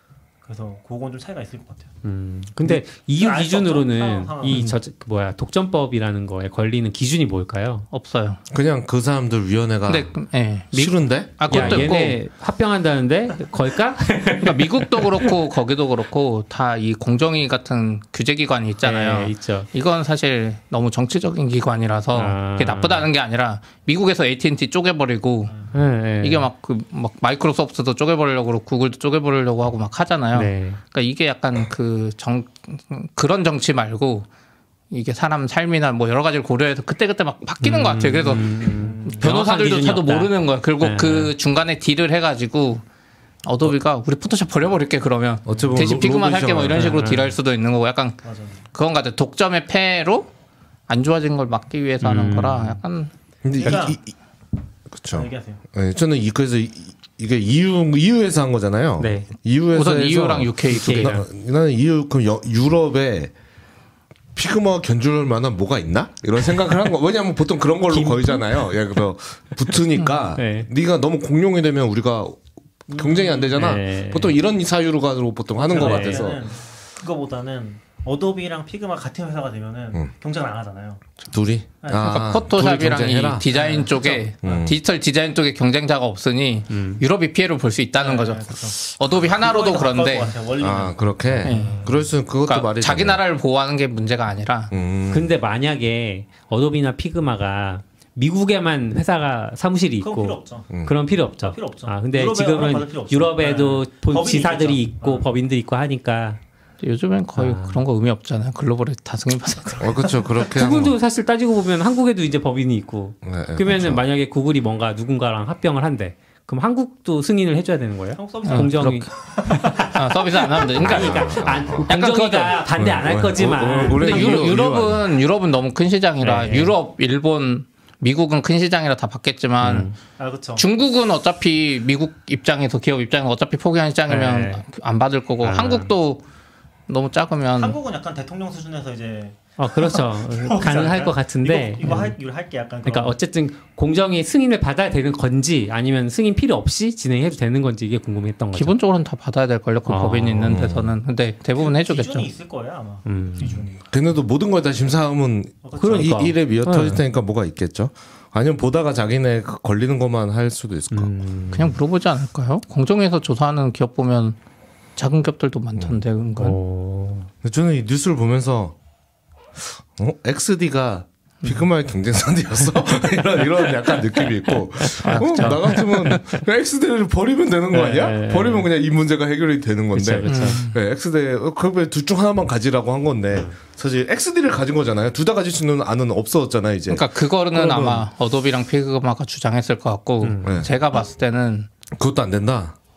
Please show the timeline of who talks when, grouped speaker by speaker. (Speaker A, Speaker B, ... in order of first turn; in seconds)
Speaker A: 0.4-1.9, 2.7-4.7, 25.5-25.7, 38.6-39.3, 48.2-48.6, 53.6-54.0, 55.1-55.6, 72.9-73.3, 75.5-81.0, 81.8-82.1, 83.5-84.2, 88.0-91.7, 100.0-100.7, 101.4-105.3, 118.2-120.0, 130.2-130.7, 137.6-143.2, 151.6-153.8, 155.6-156.3
Speaker B: 2.0-7.9, 11.5-15.3, 18.8-19.7, 22.1-23.1, 25.7-26.5, 30.3-30.8, 37.6-41.3, 46.7-47.4, 52.0-52.8, 59.0-59.3, 60.7-61.2, 67.9-68.6, 70.3-70.7, 73.5-74.3, 75.8-76.3, 86.7-87.0, 95.1-106.4, 107.3-107.8, 110.5-120.0, 120.7-124.5, 126.2-126.7, 129.6-129.9, 134.1-134.6, 135.4-135.9, 139.6-142.1, 142.8-148.7, 149.8-150.6, 153.1-153.6, 155.8-157.0, 160.9-161.8, 166.3-167.3, 175.0-176.2, 177.7-178.7, 179.9-180.6, 190.2-190.5
Speaker C: 4.4-4.8, 7.9-8.4, 9.9-12.2, 14.4-25.7, 26.2-34.3, 34.9-42.8, 43.4-48.2, 48.7-50.3, 50.9-53.1, 59.7-61.2, 81.9-90.3, 91.4-94.7, 106.8-110.1, 118.4-122.6, 123.8-129.9, 130.6-136.2, 136.9-137.8, 141.8-142.1, 148.5-152.3, 161.5-164.4, 165.0-166.6, 174.9-176.1, 180.3-180.8, 186.9-191.7
Speaker D: 8.5-10.1, 10.7-11.9, 45.5-47.0, 53.4-54.1, 54.9-63.3, 64.3-76.5, 81.2-83.5, 84.4-84.8, 90.6-93.2, 94.7-95.3, 109.8-111.0, 113.2-114.0, 120.7-121.9, 122.7-125.0, 150.4-150.9, 153.9-161.1, 167.4-168.7, 169.9-188.0, 190.4-190.7, 191.9-192.8